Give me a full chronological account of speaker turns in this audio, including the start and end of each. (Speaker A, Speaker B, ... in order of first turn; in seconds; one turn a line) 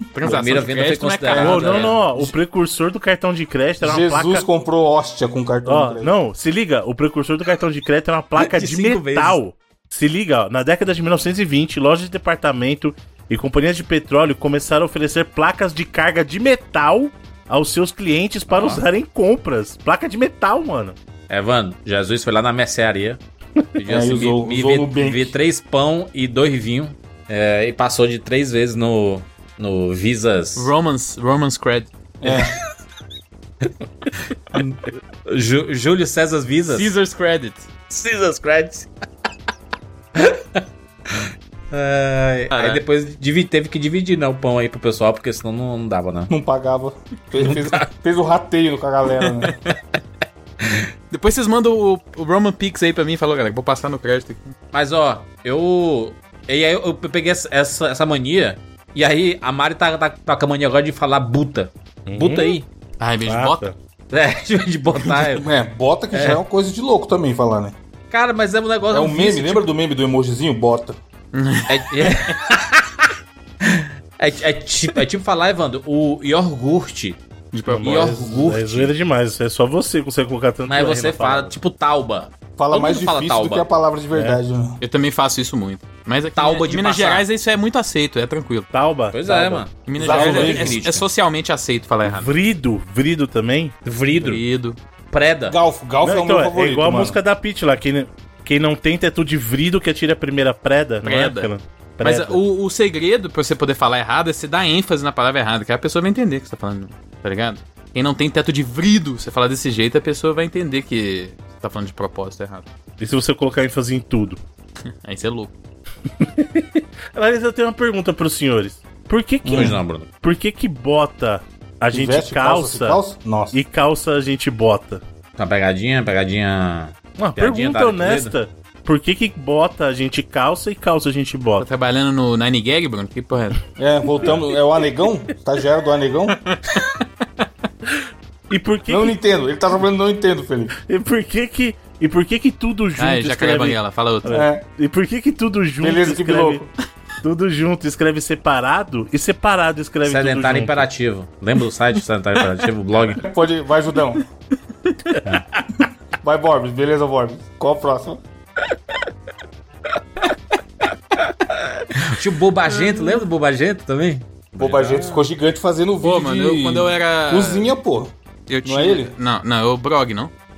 Speaker A: 0.1-2.0
Speaker B: 0.2-2.0
Speaker C: 1.3-4.5
Speaker D: 3.8-6.1
Speaker C: 5.7-21.0
Speaker B: 8.4-9.4
Speaker B: 18.5-18.8
Speaker B: 21.3-23.2
Speaker B: 23.8-30.7
Speaker D: 23.9-25.4
Speaker A: 30.6-31.9
Speaker D: 32.2-32.5
Speaker B: 34.5-36.9
Speaker A: 36.7-37.7
Speaker B: 37.9-38.9
Speaker B: 40.2-46.3
Speaker A: 42.5-42.8
Speaker D: 46.3-49.6
Speaker B: 47.4-47.9
Speaker A: 49.5-49.8
Speaker A: 51.1-54.5
Speaker B: 54.7-62.7
Speaker C: 62.1-62.6
Speaker A: 63.0-63.7
Speaker C: 63.2-63.8
Speaker B: 64.1-65.5
Speaker D: 65.3-67.8
Speaker B: 66.1-66.4
Speaker B: 68.1-69.7
Speaker D: 68.9-71.0
Speaker A: 71.3-72.4
Speaker B: 71.7-73.1
Speaker B: 73.6-77.2
Speaker A: 77.5-78.2
Speaker C: 77.7-81.6
Speaker B: 77.8-78.9
Speaker B: 80.7-83.7
Speaker D: 82.6-84.8
Speaker C: 84.1-84.4
Speaker A: 84.8-88.7
Speaker B: 86.3-87.2
Speaker C: 88.7-89.7
Speaker B: 89.1-91.1
Speaker A: 89.8-92.3
Speaker D: 90.0-90.8
Speaker C: 92.0-93.7
Speaker B: 93.8-94.4
Speaker A: 94.2-94.8
Speaker B: 95.1-95.6
Speaker D: 95.5-97.2
Speaker C: 96.0-102.4
Speaker A: 101.0-112.7
Speaker C: 113.0-114.4
Speaker A: 115.0-115.5
Speaker C: 116.2-125.0
Speaker D: 119.5-119.8
Speaker B: 119.5-120.1
Speaker D: 121.9-123.6
Speaker B: 125.4-128.3
Speaker C: 127.2-131.7
Speaker A: 131.6-133.6
Speaker D: 133.8-136.4
Speaker A: 136.5-137.0
Speaker C: 137.9-139.2
Speaker D: 138.9-140.7
Speaker C: 140.8-146.6
Speaker A: 143.0-144.4
Speaker D: 144.3-144.6
Speaker D: 145.8-146.7
Speaker C: 147.2-150.9
Speaker B: 150.0-153.3
Speaker D: 153.2-154.2
Speaker A: 154.9-155.2
Speaker D: 156.2-158.2
Speaker B: 161.5-165.3
Speaker A: 162.7-163.3
Speaker D: 164.6-168.1
Speaker A: 166.0-167.7
Speaker A: 168.5-170.3
Speaker D: 168.7-169.1